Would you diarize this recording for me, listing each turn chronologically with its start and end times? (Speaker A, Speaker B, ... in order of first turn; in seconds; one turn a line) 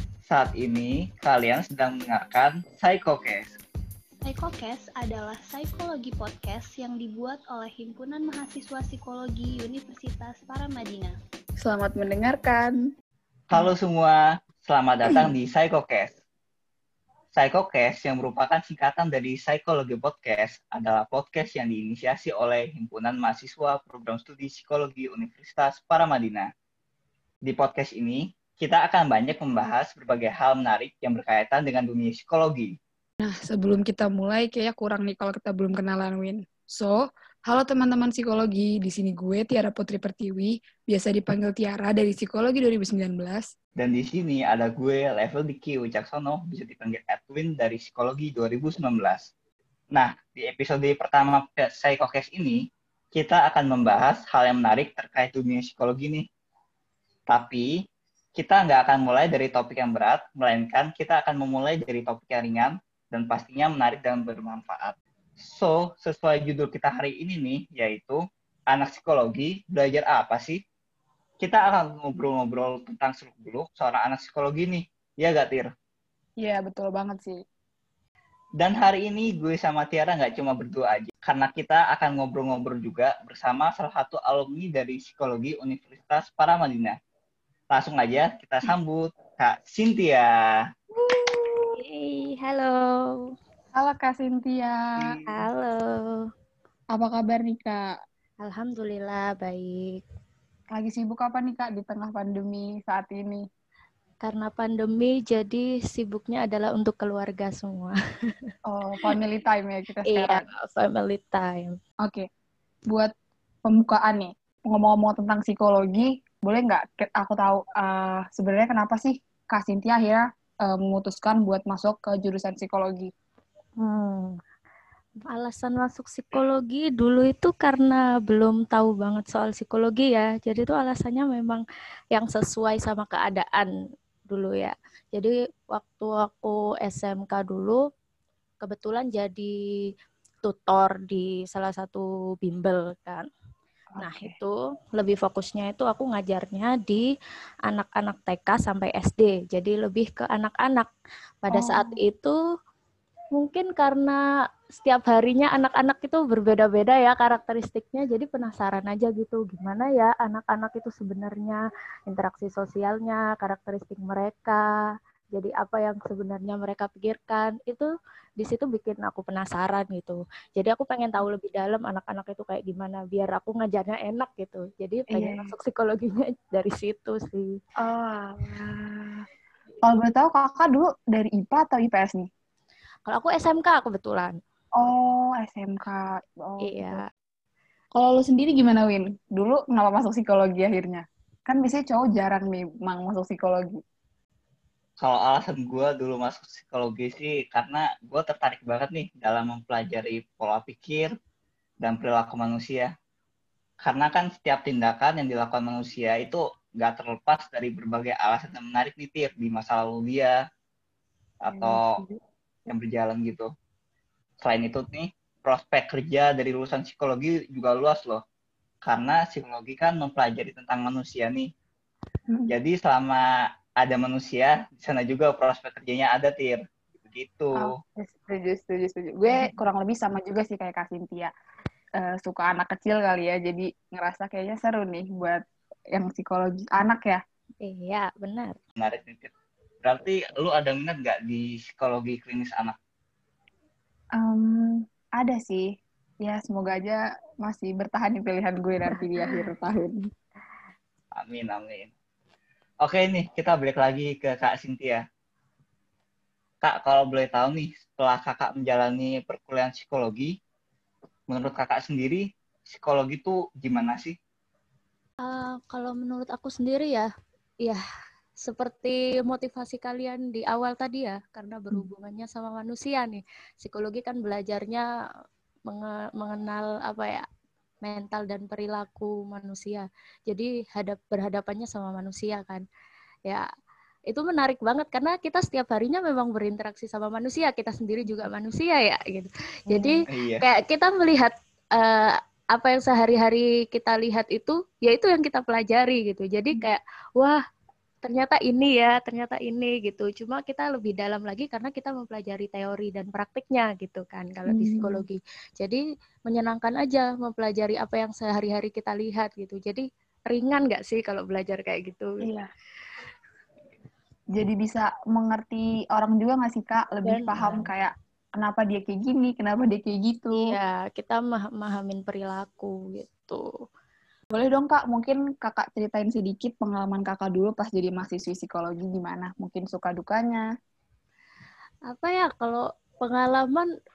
Speaker A: 0.2-3.5
Speaker B: 4.2-11.2
Speaker C: 11.6-12.7
Speaker A: 13.5-16.2
Speaker A: 17.3-26.5
Speaker A: 27.4-32.7
Speaker C: 33.2-37.0
Speaker C: 37.5-43.5
Speaker A: 43.8-49.3
Speaker A: 49.9-52.6
Speaker A: 53.1-56.2
Speaker A: 57.3-57.7
Speaker A: 58.4-70.6
Speaker A: 71.4-75.7
Speaker C: 76.4-77.4
Speaker A: 78.6-87.0
Speaker A: 87.7-90.6
Speaker C: 91.1-91.7
Speaker D: 91.8-93.2
Speaker C: 93.7-94.7
Speaker A: 95.0-95.5
Speaker D: 95.3-96.2
Speaker C: 96.9-97.8
Speaker D: 98.4-100.0
Speaker C: 100.8-103.4
Speaker D: 104.2-107.9
Speaker C: 108.7-110.4
Speaker D: 110.1-111.7
Speaker C: 113.7-123.1
Speaker D: 123.8-124.3
Speaker D: 125.3-131.6
Speaker D: 132.1-133.7
Speaker D: 134.3-137.8
Speaker D: 138.6-139.5
Speaker D: 140.4-143.2
Speaker C: 143.9-144.3
Speaker D: 144.0-147.0
Speaker D: 147.7-150.9
Speaker D: 151.4-152.3
Speaker C: 151.5-152.0
Speaker D: 153.3-154.2
Speaker D: 154.8-164.8
Speaker D: 165.3-167.9
Speaker D: 168.4-177.5
Speaker C: 175.1-175.5
Speaker C: 177.8-179.2
Speaker C: 179.8-182.3
Speaker D: 183.1-184.3
Speaker C: 184.8-187.0
Speaker D: 186.6-187.1
Speaker C: 187.9-193.8
Speaker A: 195.0-201.1
Speaker A: 201.8-202.9
Speaker A: 203.8-210.3
Speaker A: 211.4-212.0
Speaker C: 211.5-212.1
Speaker A: 212.7-213.5
Speaker A: 214.4-218.2
Speaker A: 218.8-221.5
Speaker A: 222.5-223.2
Speaker A: 223.8-227.7
Speaker C: 227.6-231.3
Speaker C: 232.0-235.4
Speaker C: 235.9-237.2
Speaker D: 237.6-238.6
Speaker A: 238.8-239.3
Speaker A: 239.8-242.8
Speaker C: 244.2-245.7
Speaker C: 246.2-250.0
Speaker A: 251.2-251.9
Speaker A: 252.8-255.0
Speaker A: 256.6-260.3
Speaker A: 261.3-264.2
Speaker D: 265.2-267.1
Speaker D: 268.4-274.8
Speaker D: 275.7-277.2
Speaker D: 277.8-282.6
Speaker D: 284.1-297.4
Speaker C: 289.7-290.0
Speaker A: 290.1-290.5
Speaker D: 298.0-312.2
Speaker C: 304.5-305.0
Speaker C: 314.4-320.6
Speaker D: 317.0-317.7
Speaker D: 320.4-323.5
Speaker C: 324.3-330.4
Speaker D: 331.9-333.7